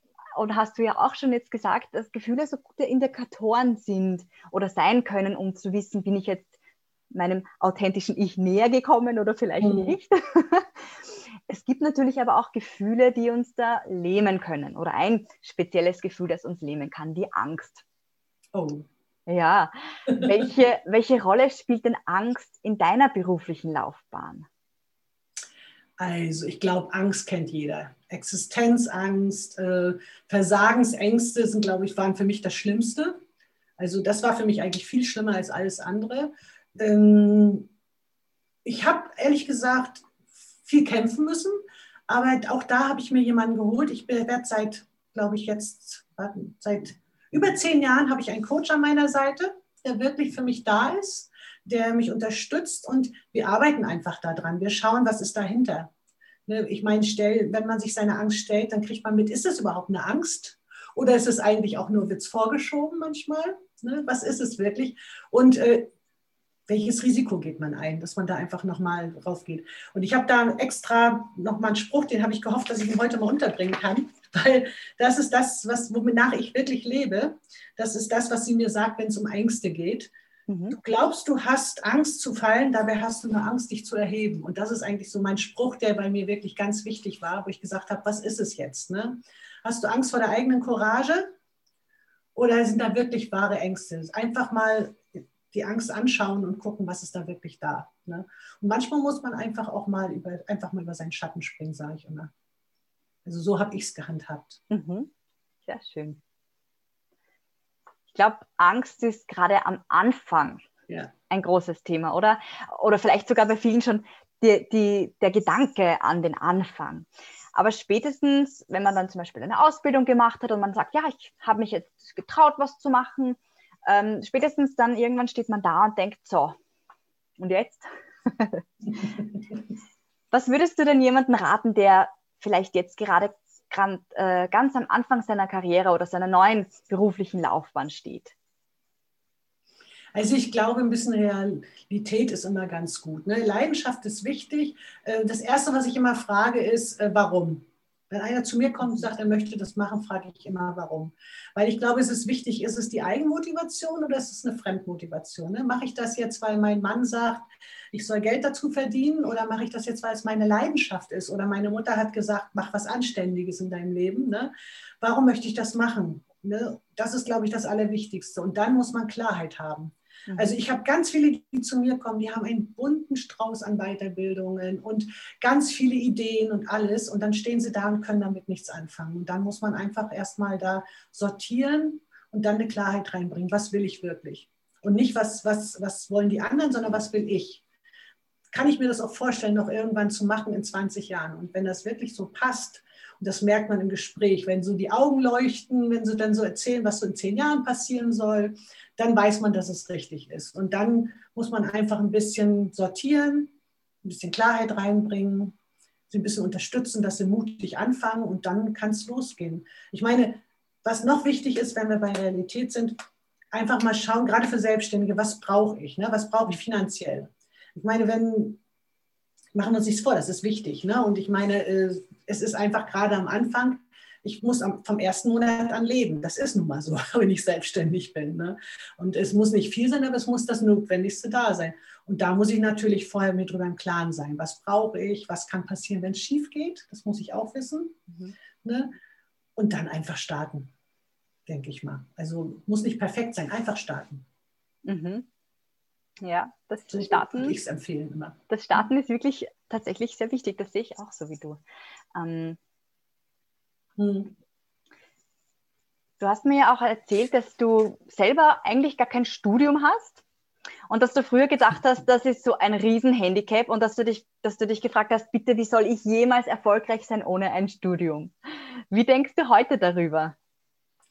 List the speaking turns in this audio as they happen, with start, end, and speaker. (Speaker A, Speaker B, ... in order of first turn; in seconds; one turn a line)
Speaker A: 0.4-6.5
Speaker A: 7.1-10.7
Speaker B: 9.6-10.0
Speaker A: 11.5-17.8
Speaker B: 18.5-18.9
Speaker A: 19.3-24.5
Speaker B: 26.0-33.2
Speaker B: 33.8-37.7
Speaker B: 38.6-40.1
Speaker B: 40.6-55.9
Speaker B: 56.5-65.9
Speaker B: 66.7-80.1
Speaker A: 80.5-80.8
Speaker B: 80.7-91.3
Speaker B: 92.3-102.3
Speaker B: 103.3-104.6
Speaker A: 104.7-105.1
Speaker A: 105.7-106.2
Speaker A: 108.1-110.7
Speaker A: 111.3-126.6
Speaker A: 127.4-129.1
Speaker A: 130.3-138.3
Speaker B: 140.1-187.6
Speaker A: 170.3-170.5
Speaker B: 188.5-205.6
Speaker B: 206.1-213.0
Speaker B: 213.5-218.6
Speaker B: 219.5-238.0
Speaker A: 238.1-238.3
Speaker B: 238.6-238.9
Speaker B: 239.6-240.7
Speaker B: 241.5-244.2
Speaker A: 244.9-245.3
Speaker A: 246.2-247.6
Speaker B: 246.9-248.9
Speaker A: 248.5-251.6
Speaker A: 252.2-252.6
Speaker B: 254.0-254.3
Speaker A: 256.2-260.2
Speaker A: 260.9-268.3
Speaker A: 268.9-270.4